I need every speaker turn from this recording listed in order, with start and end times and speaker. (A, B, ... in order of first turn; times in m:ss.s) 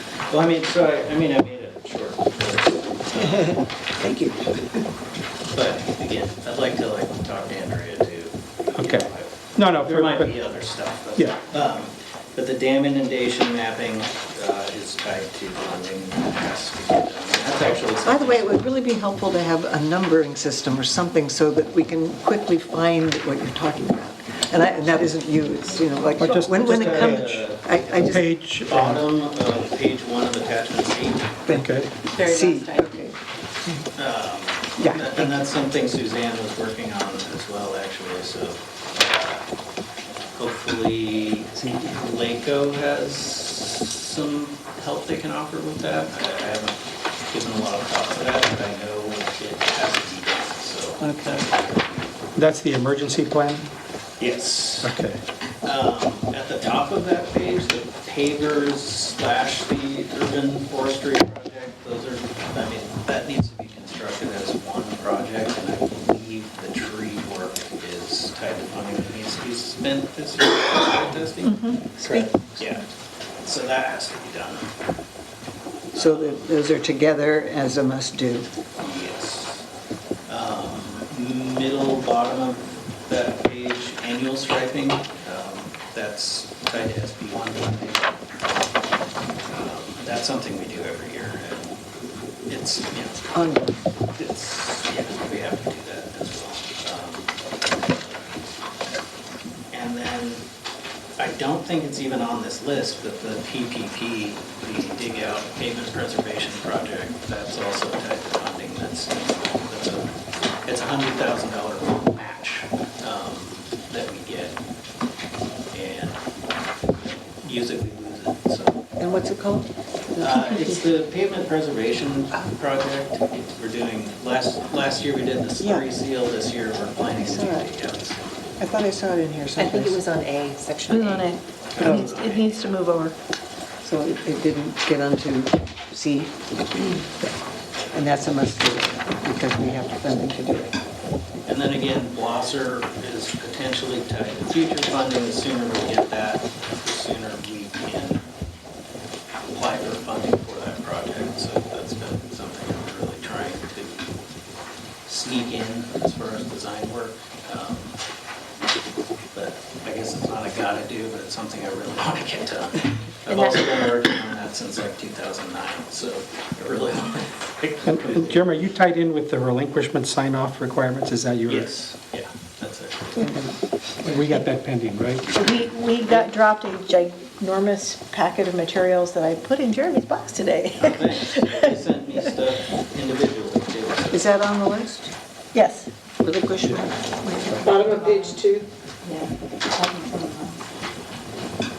0:00.3-0:03.6 A
0:03.2-0:04.7 B
0:05.5-0:18.6 A
0:08.8-0:10.3 C
0:18.0-0:28.3 B
0:26.2-0:27.4 C
0:26.5-0:28.0 A
0:28.0-0:29.0 C
0:28.6-0:31.4 A
0:31.5-0:33.8 B
0:31.5-0:32.0 C
0:32.1-0:32.9 D
0:34.0-0:39.4 A
0:34.8-0:35.3 B
0:40.4-0:46.8 A
0:47.3-0:52.2 A
0:51.0-0:51.4 B
0:52.4-0:53.7 C
0:54.2-0:54.9 A
0:54.8-0:55.2 C
0:55.6-1:12.8 A
1:11.4-1:11.9 E
1:12.0-1:12.4 B
1:13.4-1:14.7 A
1:15.9-1:16.5 A
1:16.0-1:18.5 B
1:18.8-1:19.6 A
1:20.3-1:28.2 A
1:29.5-1:31.8 A
1:32.5-1:33.6 A
1:33.3-1:33.7 B
1:34.2-1:38.2 A
1:39.7-1:40.4 A
1:41.2-1:50.1 A
1:50.6-1:54.6 A
1:55.7-1:56.2 A
1:57.0-1:58.9 A
1:59.0-2:00.8 B
2:00.2-2:08.2 A
2:05.6-2:05.9 B
2:07.2-2:07.7 B
2:08.6-2:10.0 B
2:09.6-2:11.4 D
2:10.9-2:13.2 E
2:11.7-2:12.8 A
2:11.8-2:12.1 B
2:13.8-2:17.3 B
2:17.9-2:20.8 B
2:21.5-2:28.2 A
2:29.5-2:34.2 A
2:35.0-2:38.0 A
2:39.3-2:48.5 A
2:43.3-2:43.7 E
2:47.8-2:51.7 C
2:51.5-2:53.4 A
2:54.0-2:55.3 C
2:55.3-3:01.8 E
3:00.8-3:04.3 A
3:04.1-3:05.1 B
3:05.5-3:05.9 E
3:06.2-3:08.1 B
3:07.6-3:08.7 E
3:09.1-3:10.5 D